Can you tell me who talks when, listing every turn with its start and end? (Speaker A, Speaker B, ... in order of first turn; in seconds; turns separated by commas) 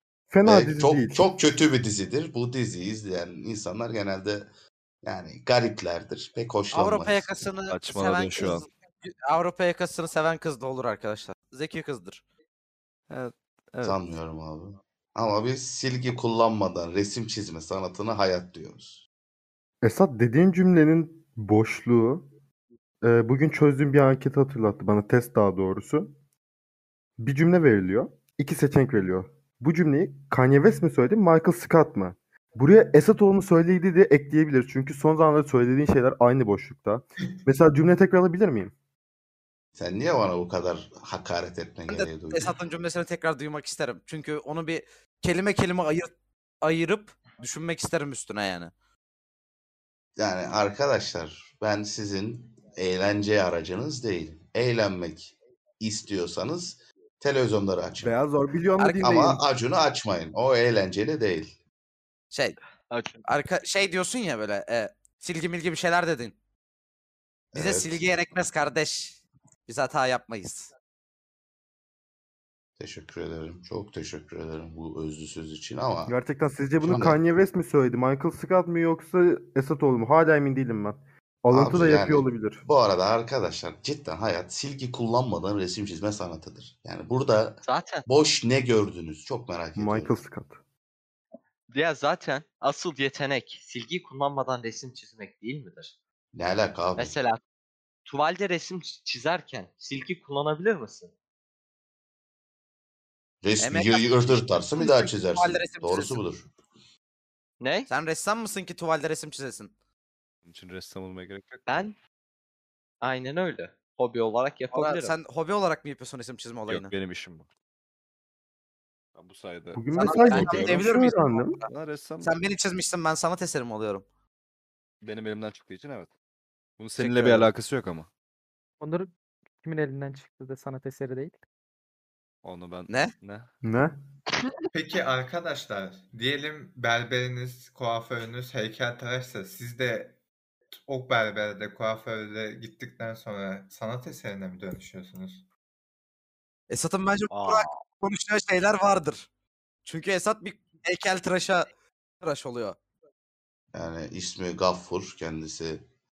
Speaker A: 0.3-1.2, Speaker B: 0.4-4.5, Speaker B: 5.0-7.3, Speaker C: 6.7-12.2, Speaker D: 7.7-8.7, Speaker D: 13.1-14.0, Speaker B: 13.8-19.0, Speaker A: 19.8-22.2, Speaker A: 23.0-26.1, Speaker A: 27.2-38.7, Speaker B: 39.8-42.6, Speaker C: 41.9-48.7, Speaker B: 50.2-58.1, Speaker A: 58.0-59.4, Speaker C: 58.8-59.0, Speaker B: 59.0-61.5, Speaker C: 62.3-62.6, Speaker E: 62.9-63.2, Speaker C: 63.2-66.3, Speaker B: 67.5-68.0, Speaker C: 67.5-70.7, Speaker B: 72.8-76.1, Speaker A: 76.1-82.6, Speaker B: 76.8-77.2, Speaker B: 81.5-90.2, Speaker E: 87.6-88.0, Speaker A: 89.8-90.6, Speaker E: 91.7-95.9, Speaker B: 96.3-97.2, Speaker E: 97.0-97.4, Speaker E: 98.1-101.1, Speaker B: 103.4-106.5, Speaker C: 103.6-106.2, Speaker E: 107.6-107.9, Speaker C: 107.9-109.7, Speaker D: 110.4-111.8, Speaker E: 111.7-111.9, Speaker E: 113.0-115.1, Speaker C: 114.7-116.9, Speaker D: 116.7-117.5, Speaker D: 119.2-120.9, Speaker A: 119.7-121.6, Speaker C: 119.9-121.7, Speaker D: 121.7-122.3, Speaker C: 122.2-124.0, Speaker D: 125.0-126.1, Speaker D: 126.8-128.1, Speaker C: 127.0-127.5, Speaker F: 128.8-129.1, Speaker F: 129.6-131.3, Speaker D: 132.4-133.5, Speaker C: 132.9-133.2, Speaker A: 133.6-133.9, Speaker G: 134.7-140.2, Speaker G: 140.7-145.4, Speaker C: 146.7-149.3, Speaker E: 147.3-147.8, Speaker C: 149.8-151.7, Speaker C: 152.2-152.8, Speaker B: 153.7-155.8